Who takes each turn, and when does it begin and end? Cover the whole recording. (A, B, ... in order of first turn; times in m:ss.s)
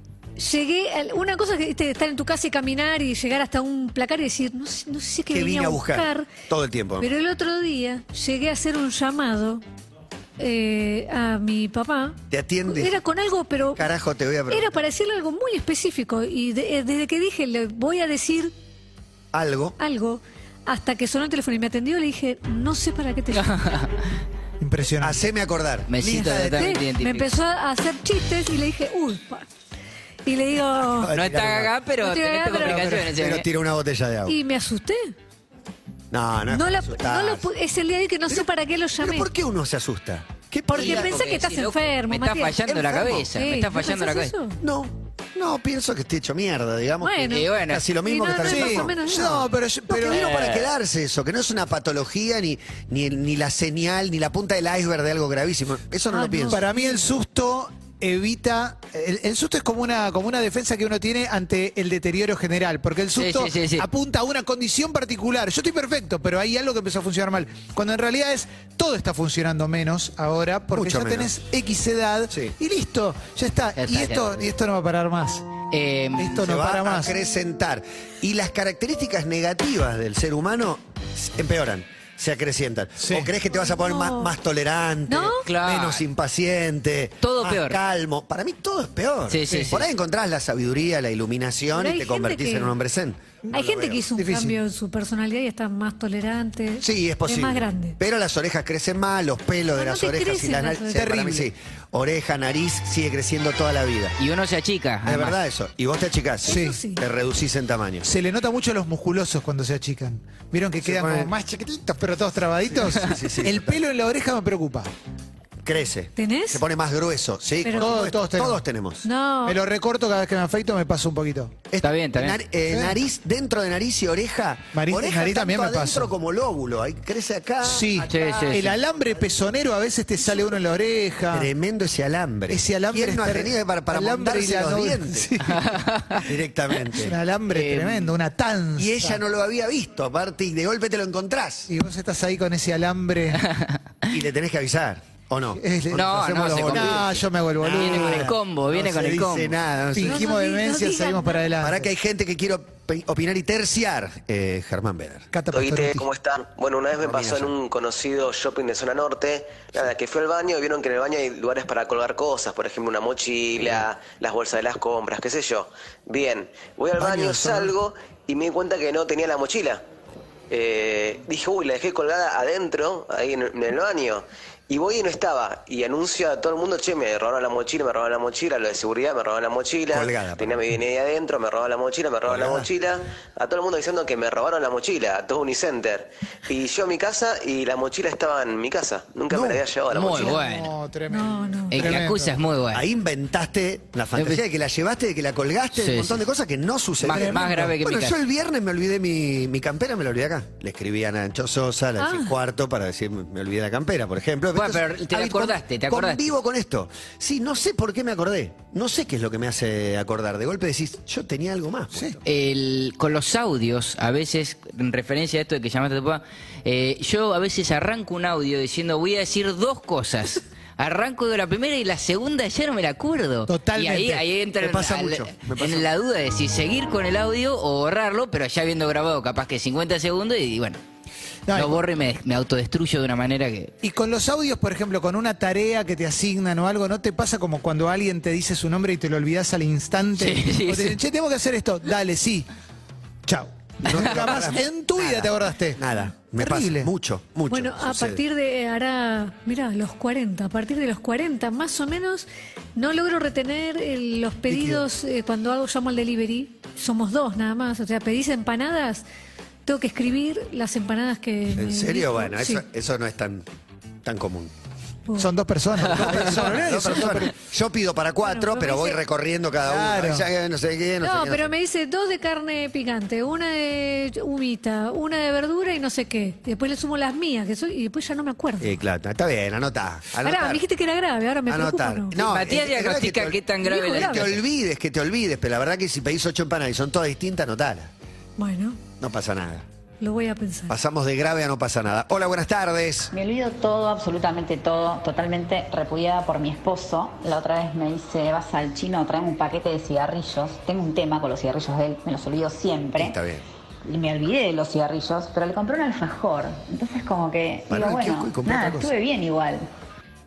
0:00.4-0:06.3 A
0:05.3-0:07.1 B
0:07.0-0:09.6 A
0:10.4-0:13.9 A
0:12.3-0:13.0 B
0:13.6-0:14.8 B
0:14.5-0:18.5 A
0:19.3-0:19.8 B
0:19.8-0:23.8 A
0:23.4-0:23.8 C
0:24.6-0:25.2 D
0:25.0-0:26.8 B
0:25.9-0:27.4 C
0:26.0-0:29.5 A
0:30.2-0:31.2 A
0:31.0-0:31.9 B
0:31.1-0:33.5 C
0:32.0-0:32.9 A
0:32.5-0:33.1 D
0:33.1-0:34.4 B
0:34.2-0:35.1 A
0:36.1-0:37.5 B
0:36.5-0:39.3 A
0:38.3-0:41.4 B
0:40.7-0:42.8 A
0:40.7-0:44.3 C
0:42.7-0:43.3 B
0:43.3-0:44.6 A
0:44.6-0:56.6 B
0:47.0-0:47.4 A
0:47.3-0:47.9 C
0:48.0-0:49.3 A
0:48.4-0:50.4 D
0:50.2-0:50.6 C
0:56.1-0:57.0 A
0:56.5-1:15.5 D
1:03.2-1:03.9 C
1:10.7-1:11.3 B
1:13.8-1:14.5 C
1:15.7-1:16.4 C
1:16.2-1:17.2 D
1:16.4-1:34.1 B
1:23.0-1:23.4 D
1:23.5-1:24.3 A
1:25.1-1:25.5 A
1:25.4-1:26.0 C
1:27.2-1:27.8 C
1:29.3-1:29.9 C
1:31.7-1:32.7 A
1:33.5-1:34.6 D
1:33.5-1:38.0 A
1:36.8-1:44.2 B
1:39.7-1:41.0 A
1:40.9-1:41.5 D
1:44.2-1:45.4 C
1:45.0-1:48.1 B
1:46.4-1:47.0 A
1:46.5-1:46.8 D
1:48.0-1:54.9 D
1:50.8-1:51.3 B
1:52.8-1:53.8 B
1:55.6-1:59.1 B
1:56.2-1:56.6 A
1:57.6-1:57.9 A
1:57.8-1:58.6 D
1:59.0-1:59.6 A
1:59.5-2:01.5 D
2:01.7-2:08.3 B
2:01.8-2:02.4 C
2:02.7-2:03.0 D
2:04.7-2:06.1 D
2:07.6-2:11.5 D
2:08.0-2:08.8 C
2:11.3-2:15.3 B
2:12.5-2:15.8 D
2:15.5-2:16.2 C
2:16.3-2:17.2 B
2:16.9-2:19.2 D
2:17.5-2:18.1 C
2:18.8-2:21.7 B
2:21.7-2:23.4 D
2:24.1-2:28.3 B
2:25.6-2:29.3 D
2:25.9-2:29.6 C
2:29.1-2:30.3 B
2:30.0-2:31.9 D
2:30.1-2:31.5 A
2:31.6-2:35.3 B
2:35.3-2:36.1 D
2:35.5-2:49.8 E
2:37.0-2:37.5 B
2:47.0-2:47.6 B
2:50.5-3:10.4 E
2:59.9-3:00.6 B
3:02.3-3:02.7 B
3:09.3-3:09.7 B
3:09.9-3:10.7 C
3:10.1-3:12.4 D
3:11.1-3:11.9 A
3:11.7-3:12.8 C
3:12.7-3:32.2 B
3:14.1-3:14.4 C
3:15.8-3:16.3 C
3:17.0-3:18.2 C
3:17.0-3:17.8 D
3:22.0-3:22.4 A
3:24.5-3:26.3 C
3:32.2-3:50.8 C
3:43.5-3:44.3 D
3:44.6-3:45.9 B
3:51.5-3:51.8 D
3:51.5-3:53.7 C
3:53.8-4:02.5 D
4:00.2-4:01.0 C
4:03.3-4:06.9 D
4:03.8-4:08.2 B
4:03.9-4:04.5 C
4:07.5-4:19.0 A
4:14.5-4:14.8 B
4:14.5-4:14.8 D
4:19.7-4:22.6 A
4:21.6-4:23.5 B
4:24.0-4:24.5 B
4:25.1-4:25.3 A
4:25.2-4:27.3 D
4:26.0-4:31.5 B
4:28.2-4:29.0 A
4:29.6-4:30.3 D
4:31.0-4:38.8 A
4:38.6-4:40.6 B
4:40.2-4:42.2 A
4:41.5-4:47.9 B
4:42.2-4:44.4 C
4:43.6-4:44.4 A
4:48.4-4:48.8 A
4:49.0-4:49.6 B
4:50.0-4:50.8 A
4:50.7-4:53.1 B
4:53.1-5:03.2 F
5:02.9-5:03.4 B
5:03.8-5:09.7 F
5:07.7-5:09.0 B